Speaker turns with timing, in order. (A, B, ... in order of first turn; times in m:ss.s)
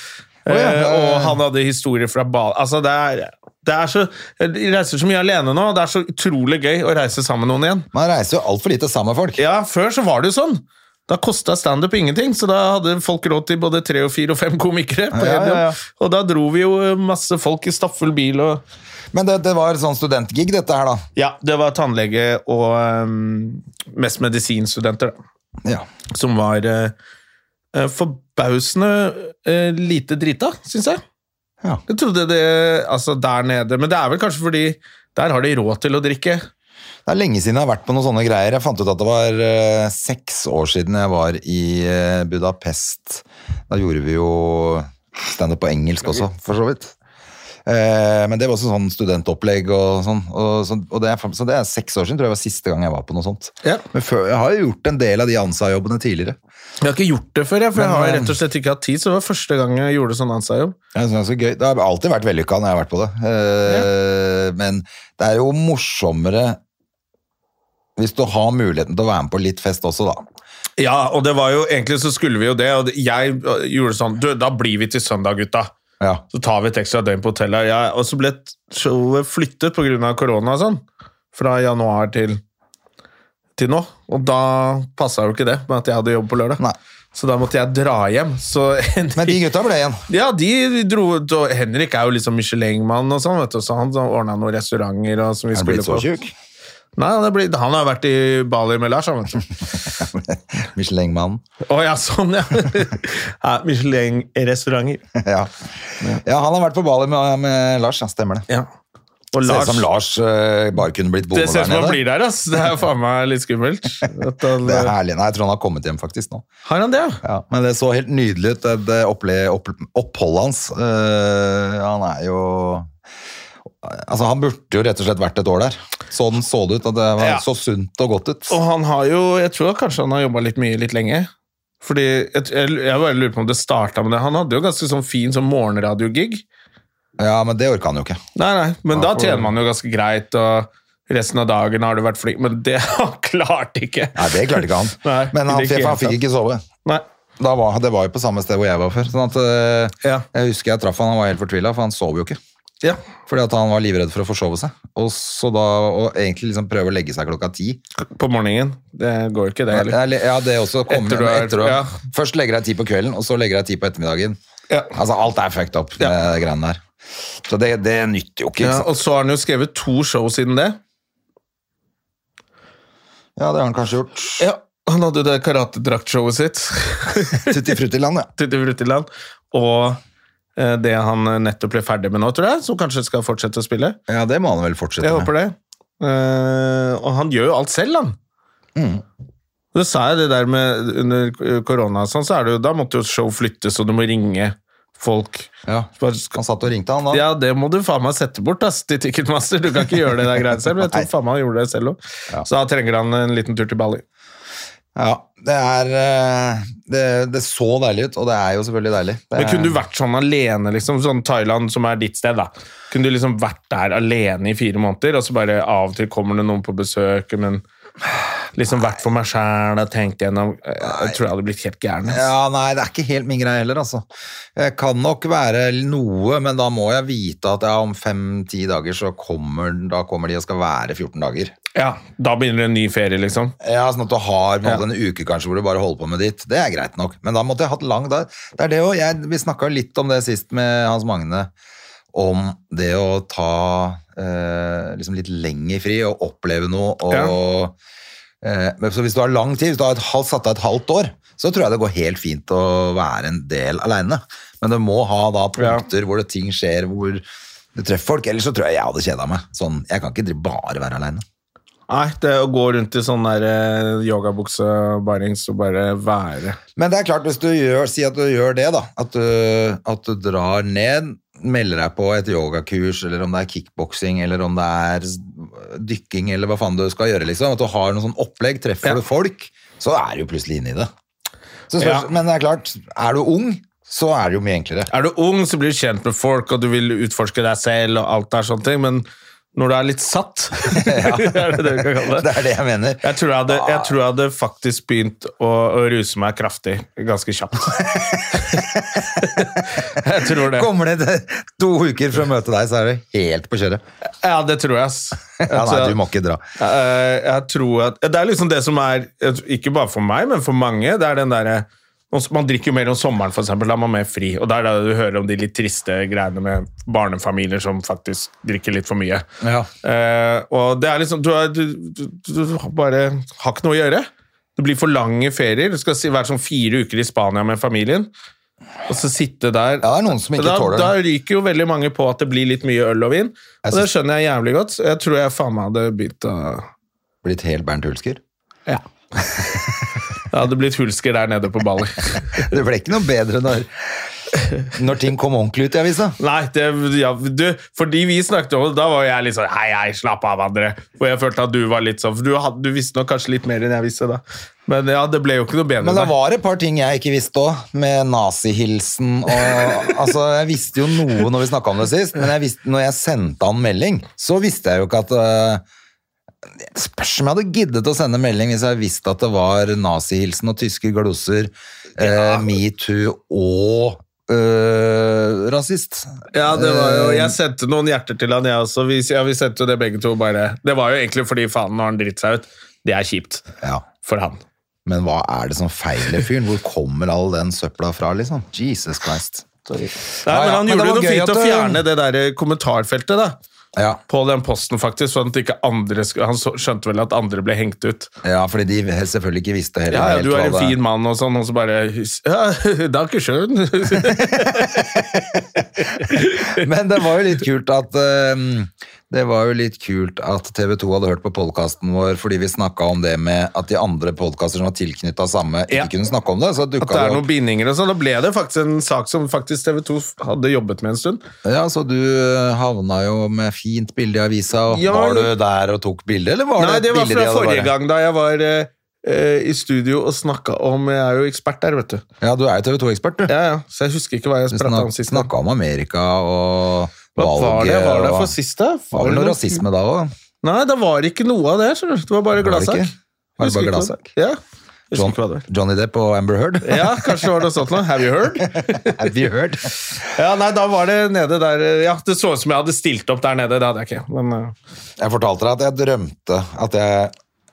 0:00.4-0:07.9 A
0:00.5-0:01.4 B
0:07.9-0:09.4 B
0:09.4-0:18.6 A
0:15.1-0:15.8 B
0:19.1-0:21.0 B
0:21.2-0:25.2 A
0:26.1-0:26.9 A
0:27.7-0:31.0 A
0:31.9-0:36.5 A
0:37.1-0:46.9 B
0:47.7-0:56.4 B
0:56.8-1:00.8 A
0:57.8-0:58.3 B
1:00.9-1:06.6 B
1:08.0-1:10.2 B
1:10.8-1:15.7 A
1:16.3-1:22.4 A
1:23.6-1:26.6 A
1:27.1-1:29.4 A
1:29.2-1:30.0 B
1:30.1-1:36.1 A
1:35.5-1:36.3 B
1:37.0-1:39.4 A
1:39.9-1:41.4 B
1:41.7-1:45.0 A
1:45.2-1:45.5 B
1:46.2-1:48.5 B
1:49.3-1:49.9 A
1:49.4-1:52.0 B
1:51.3-1:54.9 A
1:54.6-1:56.4 B
1:56.7-1:57.2 A
1:57.2-2:02.9 B
2:03.8-2:08.6 B
2:07.2-2:07.4 A
2:08.5-2:11.3 A
2:11.8-2:16.4 A
2:17.2-2:18.2 B
2:18.4-2:26.2 A
2:18.9-2:19.5 B
2:24.2-2:26.6 B
2:27.4-2:32.4 B
2:33.3-2:37.8 B
2:38.0-2:40.0 A
2:39.7-2:44.4 B
2:40.9-2:41.9 A
2:44.9-2:46.8 B
2:47.4-2:48.9 B
2:48.6-2:50.8 A
2:53.4-2:54.5 B
2:54.4-2:57.5 A
2:57.4-2:58.3 B
2:58.4-3:00.0 A
3:00.6-3:04.0 A
3:04.1-3:05.3 B
3:05.0-3:08.2 A
3:08.8-3:09.0 B
3:09.7-3:16.4 A
3:15.7-3:17.2 B
3:17.1-3:24.0 A
3:20.8-3:21.1 B
3:25.0-3:29.8 B
3:29.4-3:37.6 A
3:38.6-3:42.3 A
3:40.8-3:41.2 B
3:42.1-3:51.5 B
3:51.8-3:53.5 A
3:53.6-4:01.5 B
4:02.1-4:07.8 B
4:07.1-4:07.4 A
4:08.4-4:21.2 B
4:15.6-4:15.8 A
4:21.9-4:26.6 A
4:26.8-4:40.9 B
4:41.7-4:44.9 B
4:41.8-4:42.1 A
4:44.9-4:52.3 A
4:50.7-4:53.9 B
4:53.0-5:00.7 A
4:57.9-4:59.5 B
5:00.2-5:03.8 B
5:04.2-5:06.0 A
5:05.4-5:06.4 B
5:06.6-5:19.2 A
5:19.4-5:19.7 B
5:19.8-5:28.1 A
5:28.9-5:36.7 A
5:29.8-5:31.0 B
5:37.2-5:38.2 B
5:40.3-5:42.5 A
5:42.4-5:44.0 B
5:44.7-5:46.2 B
5:46.2-5:56.1 A
5:55.8-6:05.6 B
6:06.6-6:17.4 B
6:12.0-6:12.5 A
6:16.3-6:23.4 A
6:24.0-6:24.4 A
6:24.9-6:29.5 B
6:29.7-6:33.4 A
6:30.3-6:31.8 B
6:34.1-6:38.1 A
6:38.2-6:40.8 B
6:39.9-6:45.0 A
6:43.9-6:57.3 B
6:45.8-6:46.7 A
6:56.8-7:01.2 A
7:01.4-7:07.7 B
7:04.7-7:05.3 A
7:06.6-7:12.0 A
7:12.2-7:13.3 B
7:13.3-7:15.3 A
7:14.5-7:18.3 B
7:17.2-7:19.6 A
7:18.9-7:20.1 B
7:20.4-7:24.4 A
7:22.4-7:24.1 B
7:24.9-7:25.5 A
7:24.9-7:27.4 B
7:26.6-7:29.1 A
7:28.4-7:29.7 B
7:30.1-7:34.6 A
7:35.0-7:37.1 B